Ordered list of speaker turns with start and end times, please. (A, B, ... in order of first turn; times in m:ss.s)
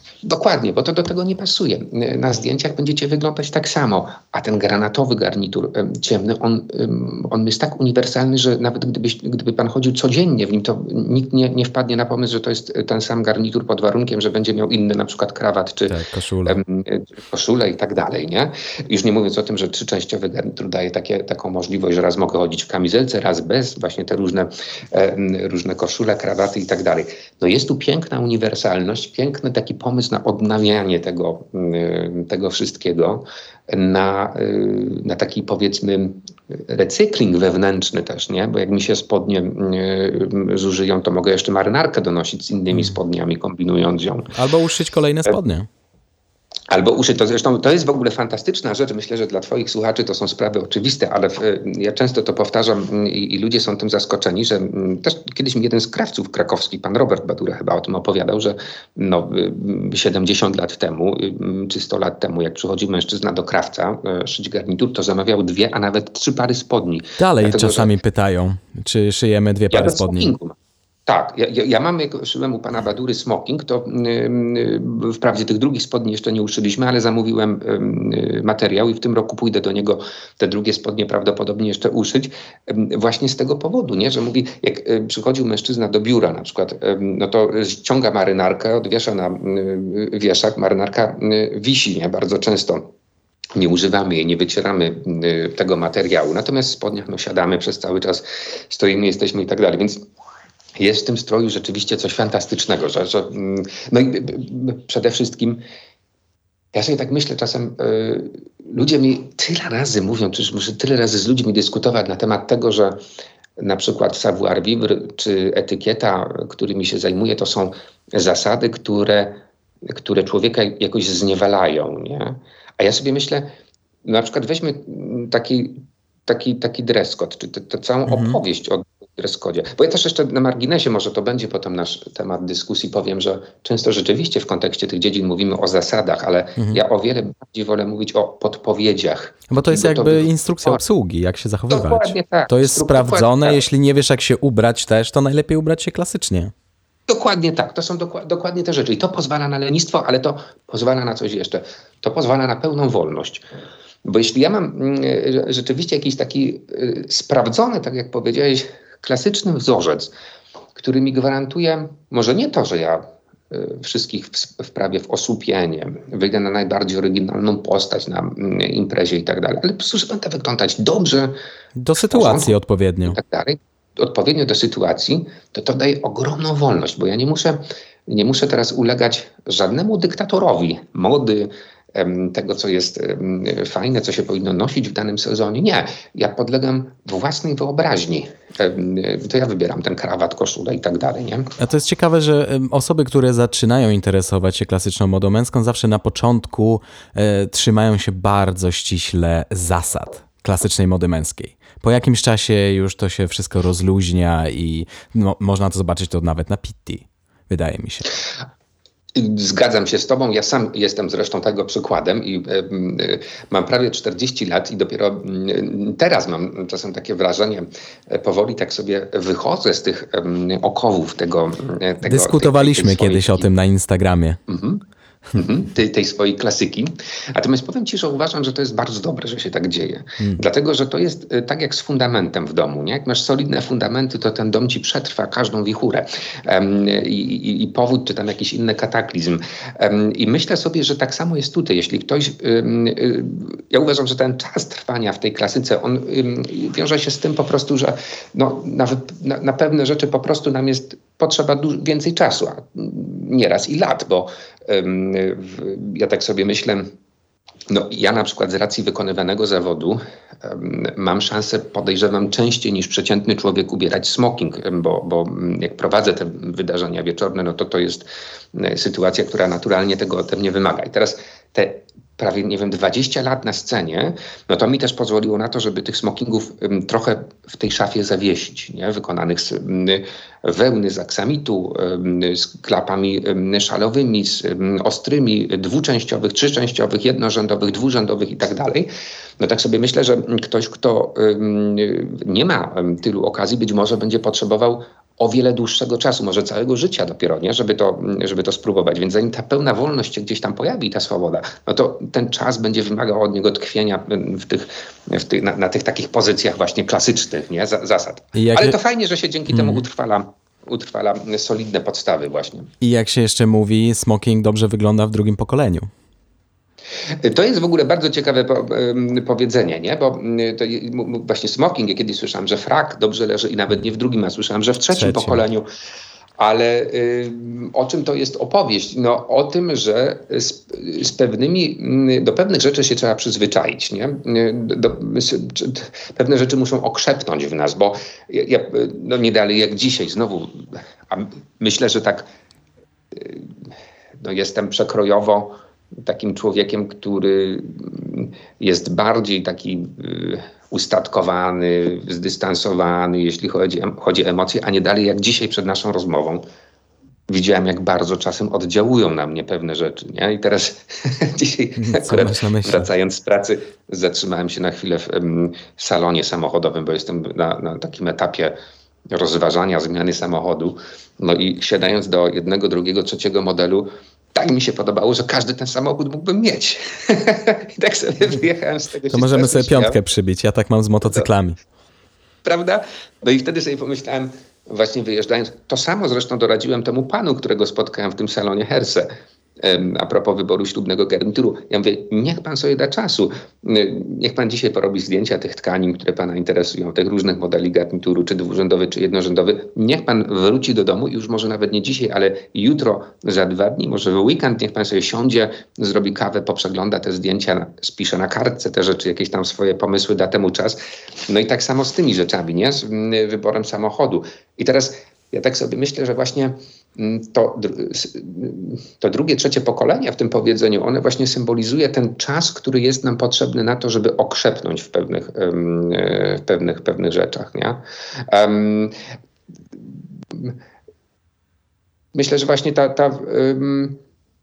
0:00.2-0:15.9 A
0:15.9-0:16.6 B
0:16.4-0:44.3 A
0:42.7-0:43.0 B
0:44.3-0:45.7 B
0:46.7-1:07.9 A
1:07.2-1:10.3 B
1:09.7-1:32.9 A
1:33.5-1:40.0 A
1:40.8-1:45.6 A
1:46.7-1:53.0 A
1:53.6-2:03.5 A
2:04.0-2:20.8 A
2:08.1-2:08.4 B
2:16.6-2:16.8 B
2:19.5-2:26.5 B
2:21.7-2:23.6 A
2:27.1-2:33.4 A
2:34.0-2:40.1 A
2:40.8-2:51.3 A
2:51.8-2:53.2 B
2:52.0-3:11.5 A
3:11.6-3:28.1 B
3:29.1-3:43.5 A
3:42.0-3:44.4 B
3:44.5-3:44.8 A
3:45.3-4:16.9 A
4:17.7-5:12.7 A
5:08.3-5:08.8 B
5:09.5-5:09.8 B
5:12.8-5:15.9 B
5:17.2-5:25.6 A
5:24.9-5:25.4 B
5:26.4-5:42.2 A
5:43.1-5:43.5 A
5:44.2-5:56.4 A
5:57.3-6:08.6 A
6:01.8-6:02.9 B
6:09.1-6:20.0 A
6:19.1-6:21.6 B
6:22.4-7:08.9 A
7:12.1-7:14.0 A